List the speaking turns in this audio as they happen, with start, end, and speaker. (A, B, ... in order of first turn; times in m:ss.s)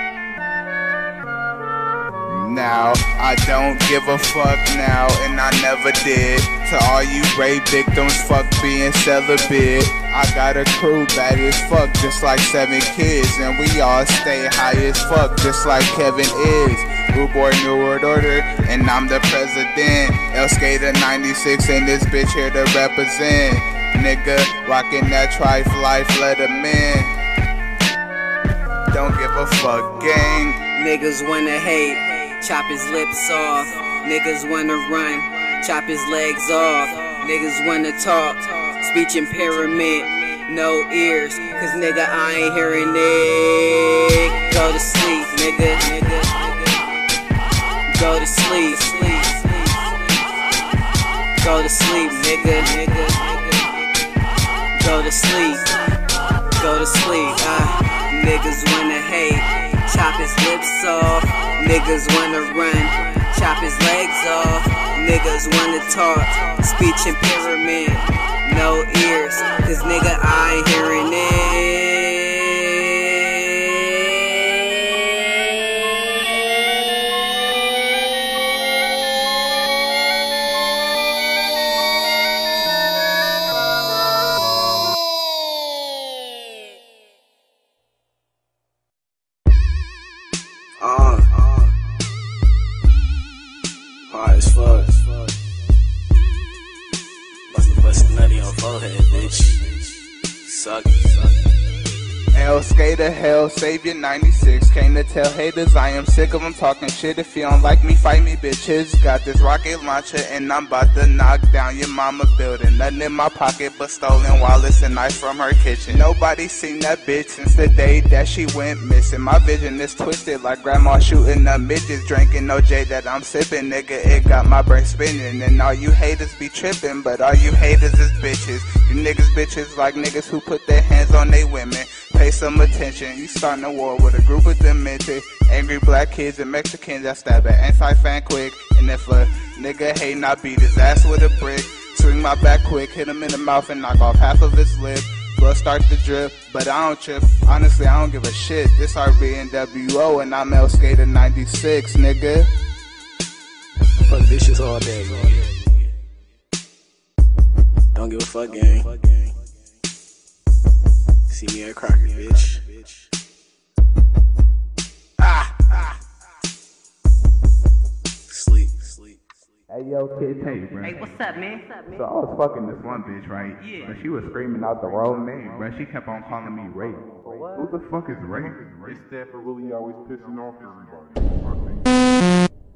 0:02.3-0:27.1 A
0:28.9-0:30.6 A
0:30.6-0:47.0 B
0:47.9-0:50.0 B
0:51.4-0:54.0 B
0:54.7-0:55.8 B
0:56.6-1:12.6 B
1:30.8-1:31.7 C
1:34.1-1:35.3 C
1:37.5-1:39.9 C
1:40.4-1:41.4 C
1:42.3-2:32.5 A
2:34.1-2:35.8 C
2:37.9-2:39.3 C
2:41.3-2:43.1 C
2:45.2-2:45.9 C
2:48.3-2:49.3 C
2:49.7-2:51.2 A
2:50.8-2:52.0 B
2:51.9-2:58.6 A
2:53.6-2:53.9 B
2:58.6-3:01.9 D